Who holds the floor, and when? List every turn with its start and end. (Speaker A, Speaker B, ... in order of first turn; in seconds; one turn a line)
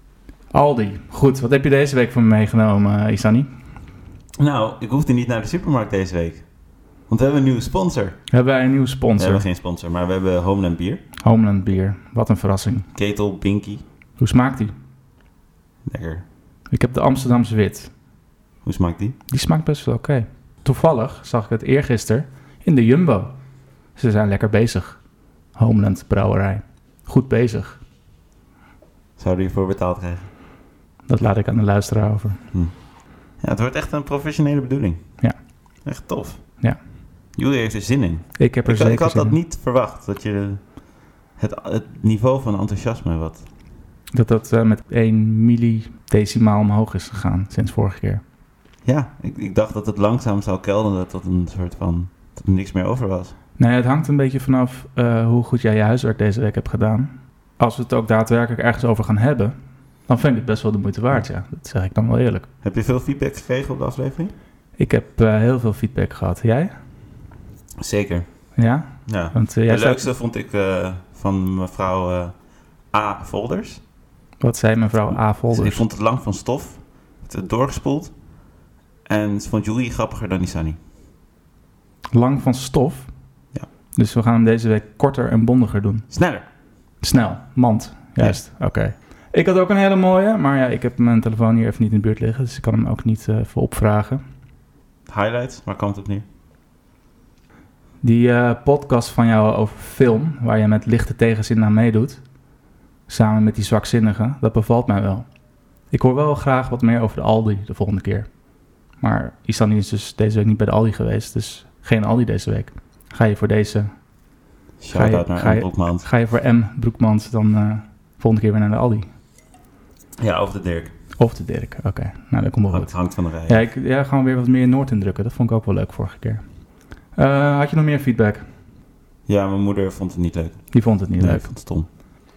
Speaker A: 0.5-3.5
Speaker B: 4.4-6.5
Speaker B: 7.1-8.2
Speaker A: 8.3-9.4
Speaker B: 9.2-11.0
Speaker A: 11.2-12.9
Speaker B: 12.9-13.8
Speaker A: 14.2-14.7
Speaker B: 15.9-16.2
Speaker A: 16.7-17.9
Speaker B: 18.6-19.2
Speaker A: 19.3-23.3
Speaker A: 23.9-25.0
Speaker A: 25.6-27.8
Speaker B: 29.2-30.3
Speaker A: 31.1-32.4
Speaker B: 33.4-35.0
Speaker B: 35.8-36.4
Speaker B: 37.4-40.8
Speaker A: 38.4-39.4
Speaker B: 41.4-43.5
Speaker A: 44.1-48.2
Speaker B: 48.8-53.4
Speaker A: 53.6-59.5
Speaker A: 60.1-62.5
Speaker B: 62.6-64.3
Speaker A: 64.8-66.7
Speaker B: 67.8-68.2
Speaker A: 68.5-70.1
Speaker B: 69.0-72.4
Speaker B: 72.9-73.8
Speaker A: 74.4-75.8
Speaker B: 75.5-78.1
Speaker B: 79.1-80.8
Speaker A: 82.1-83.1
Speaker A: 84.0-86.1
Speaker B: 86.1-86.4
Speaker A: 87.0-94.2
Speaker B: 95.1-96.2
Speaker A: 98.0-102.2
Speaker A: 103.1-105.2
Speaker A: 105.9-108.3
Speaker A: 109.0-113.9
Speaker B: 114.8-116.0
Speaker A: 114.9-119.1
Speaker B: 120.2-120.9
Speaker A: 121.2-126.4
Speaker B: 122.7-123.6
Speaker A: 127.1-128.4
Speaker B: 129.3-131.9
Speaker A: 130.7-131.5